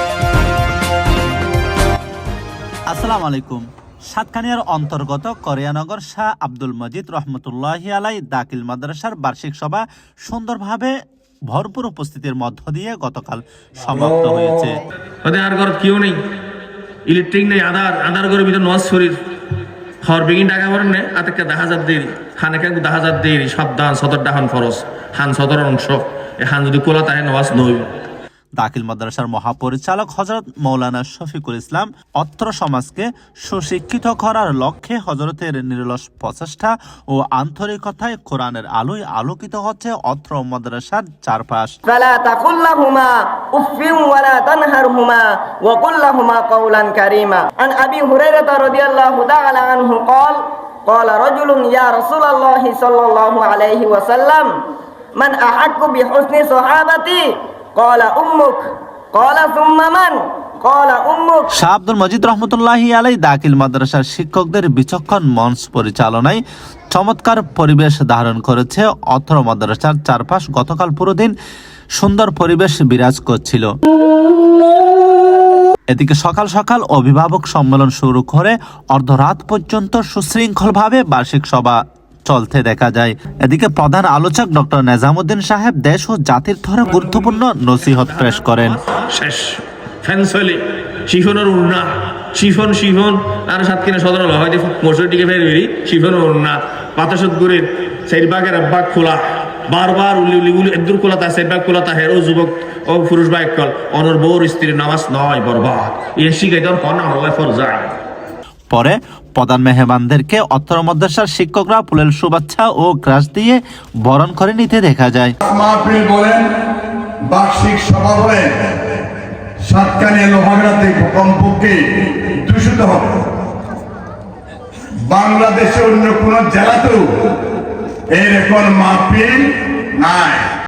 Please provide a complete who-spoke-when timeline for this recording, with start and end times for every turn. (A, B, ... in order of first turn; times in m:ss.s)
0:02.9-0:10.9 A
0:11.5-0:14.8 A
0:15.2-0:16.2 B
0:17.1-0:19.2 B
0:20.0-0:27.9 B
0:28.6-0:41.8 A
0:41.9-0:54.5 C
0:55.2-1:01.5 C
1:01.5-1:11.3 A
1:12.0-1:13.7 A
1:15.9-1:28.8 A
1:27.1-1:47.9 B
1:48.7-1:55.4 A
1:55.5-1:56.4 D
1:57.3-1:58.7 D
1:59.7-2:01.8 D
2:02.4-2:03.2 D
2:05.1-2:07.0 D
2:08.1-2:09.4 D
2:10.0-2:10.4 D